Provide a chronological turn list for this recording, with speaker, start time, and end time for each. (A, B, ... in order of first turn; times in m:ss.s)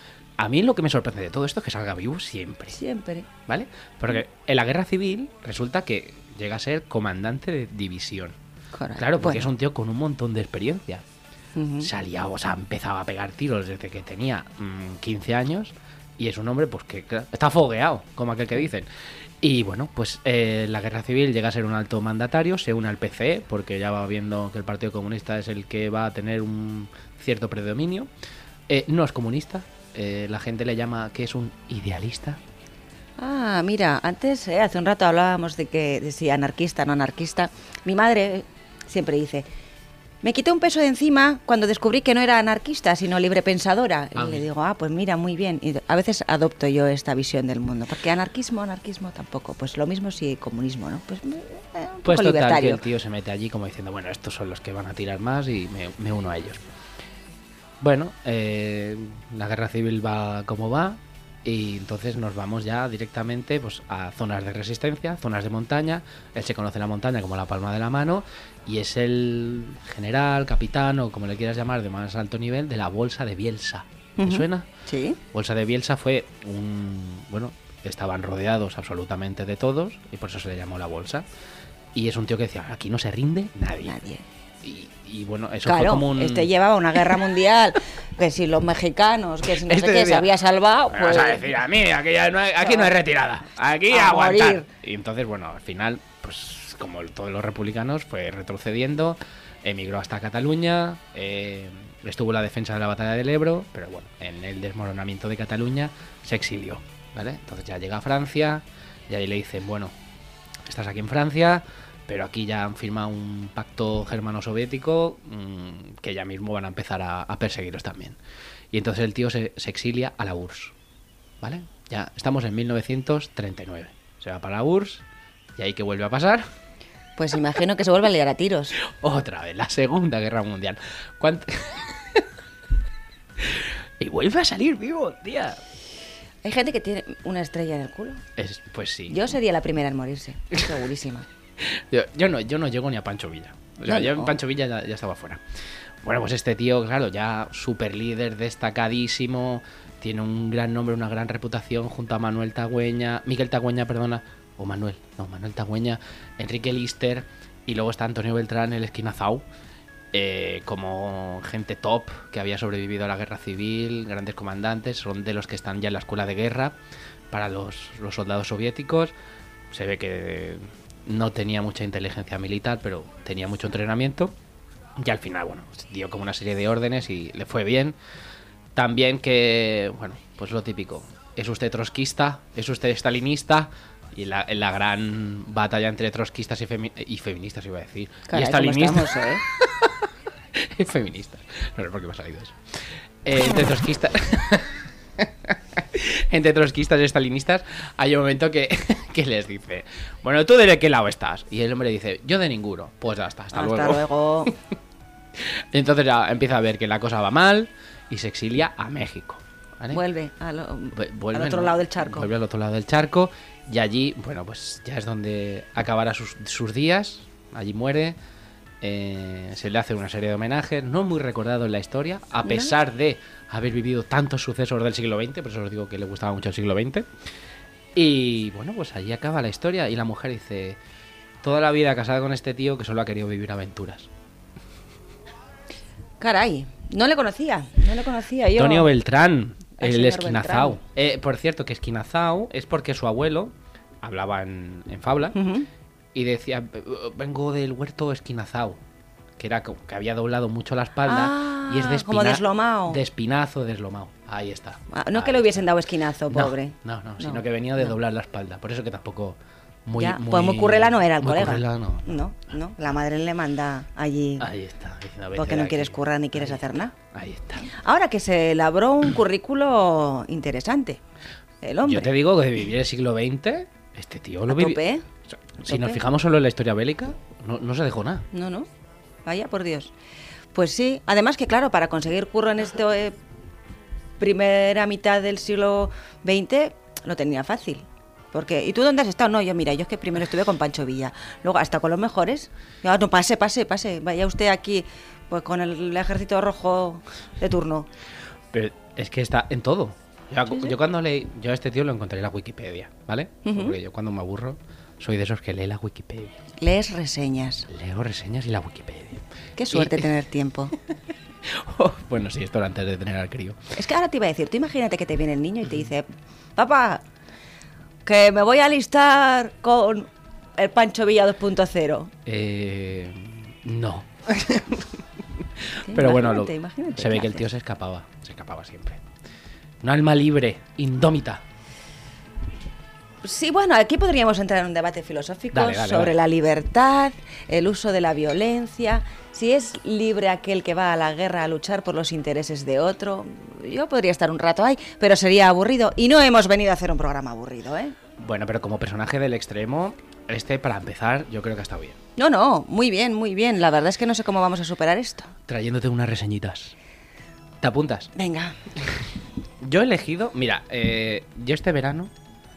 0:00.4-0:02.8 A
0:02.7-0:03.3 B
0:03.5-0:08.4 A
0:08.7-0:09.5 B
0:09.0-0:11.0 A
0:11.6-0:11.9 B
0:11.8-0:28.1 A
0:28.7-0:32.4 A
0:33.2-0:39.5 B
0:40.2-0:52.8 B
0:44.2-0:44.4 A
0:52.0-0:56.6 A
0:57.8-1:14.7 A
1:14.2-1:15.2 B
1:15.3-1:21.2 A
1:21.9-1:24.0 A
1:23.8-1:24.2 B
1:24.6-1:26.5 A
1:25.7-1:31.5 B
1:29.5-1:30.4 A
1:30.9-1:49.9 A
1:32.6-1:32.9 B
1:33.9-1:34.7 B
1:50.6-1:58.2 A
1:58.7-2:00.7 A
2:01.4-2:05.0 A
2:05.6-2:06.5 A
2:07.2-2:08.8 B
2:08.8-2:12.2 A
2:13.4-2:15.6 A
2:16.4-2:18.2 B
2:18.4-2:19.2 A
2:19.1-2:21.3 B
2:21.6-2:25.4 A
2:23.9-2:24.4 B
2:26.0-2:39.5 A
2:40.1-2:46.8 A
2:47.3-2:49.1 A
2:49.7-2:54.4 A
2:55.0-2:58.0 A
2:58.8-3:24.1 A
3:08.3-3:09.4 B
3:23.5-3:24.5 B
3:25.4-3:30.0 A
3:29.9-3:32.3 B
3:30.9-3:38.2 A
3:38.8-3:47.1 A
3:42.5-3:42.7 B
3:48.0-3:50.8 A
3:51.4-3:54.1 A
3:56.2-3:58.9 B
3:58.6-4:05.4 A
3:59.8-4:00.8 B
4:05.3-4:05.7 B
4:06.1-4:08.8 A
4:09.4-4:15.6 A
4:11.0-4:13.0 B
4:14.9-4:17.9 B
4:16.3-4:22.2 A
4:20.0-4:24.5 B
4:24.4-4:27.7 A
4:25.4-4:26.9 B
4:27.7-4:31.0 B
4:31.6-4:32.1 B
4:31.8-4:38.3 A
4:34.5-4:35.0 B
4:35.6-4:36.0 B
4:38.3-4:38.7 B
4:39.2-4:39.9 B
4:40.5-4:43.2 B
4:44.2-4:57.9 B
4:58.5-5:06.4 A
5:03.4-5:03.8 B
5:06.6-5:07.7 B
5:07.7-5:10.1 A
5:09.6-5:10.7 B
5:11.4-5:13.7 A
5:13.8-5:17.0 B
5:18.0-5:22.1 B
5:22.3-5:29.0 A
5:25.8-5:27.5 B
5:29.8-5:31.4 A
5:33.2-5:48.0 B
5:35.5-5:36.2 A
5:48.2-5:52.0 A
5:52.2-5:55.3 B
5:55.5-5:56.7 A
5:57.6-5:58.1 A
5:58.1-5:58.6 B
5:58.8-5:59.1 A
5:59.6-6:02.1 A